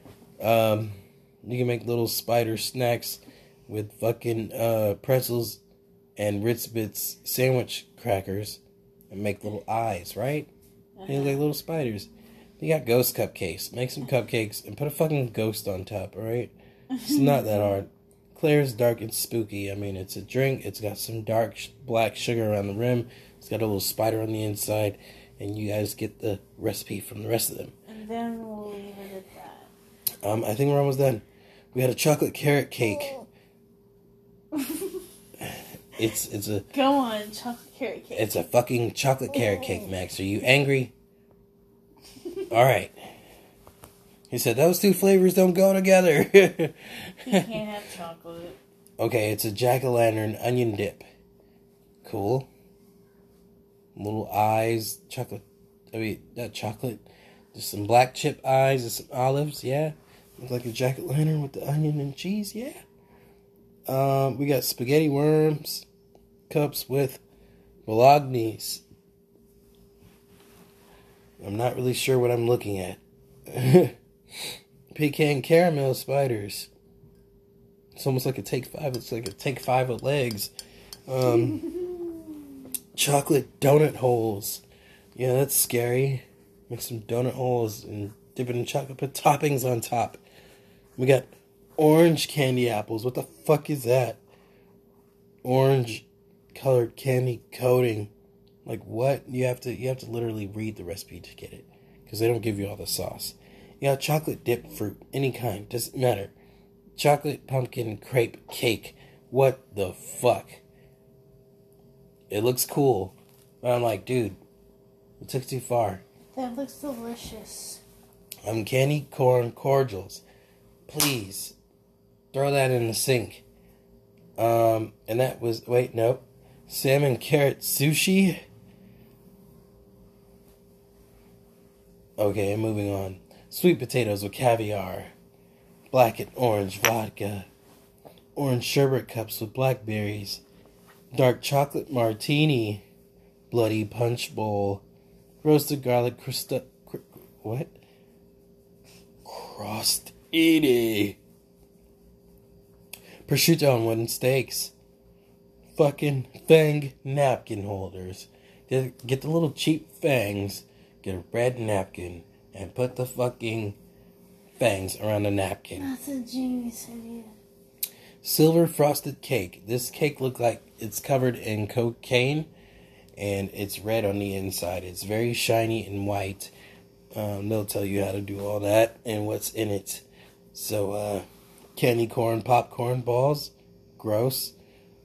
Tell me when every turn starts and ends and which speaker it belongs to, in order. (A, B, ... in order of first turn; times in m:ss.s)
0:00.4-0:05.6 A
0:06.2-0:10.5 A
0:11.0-0:11.4 B
0:11.1-0:27.7 A
0:16.9-0:17.8 B
0:27.9-0:29.7 B
0:30.2-0:33.2 A
0:34.5-0:35.0 B
0:35.4-0:36.6 A
0:36.7-0:38.3 B
0:38.1-0:40.9 A
0:42.5-0:43.1 A
0:44.3-0:47.6 A
0:47.2-0:48.6 B
0:49.0-0:51.0 A
0:52.0-0:52.5 A
0:53.9-1:02.8 A
1:03.9-1:05.8 A
1:06.5-1:07.2 A
1:07.8-1:08.8 A
1:11.4-1:16.7 A
1:17.9-1:20.5 A
1:21.1-1:21.7 A
1:22.9-1:24.6 A
1:25.1-1:30.2 A
1:31.0-1:34.2 A
1:35.4-1:38.1 A
1:38.6-1:46.3 A
1:47.0-1:50.6 A
1:52.3-1:54.4 A
1:55.2-1:56.0 A
1:56.3-1:57.8 B
1:58.4-2:00.2 A
2:00.9-2:01.6 A
2:02.3-2:03.4 A
2:04.4-2:08.4 A
2:12.2-2:15.1 A
2:15.9-2:17.5 A
2:18.4-2:20.4 A
2:21.1-2:22.8 A
2:23.5-2:24.8 A
2:25.4-2:27.7 A
2:29.2-2:31.2 A
2:33.2-2:34.7 A
2:35.7-2:43.8 A
2:44.6-2:45.9 A
2:45.8-2:47.3 B
2:48.2-2:52.5 A
2:53.2-2:56.5 A
2:57.1-3:04.5 A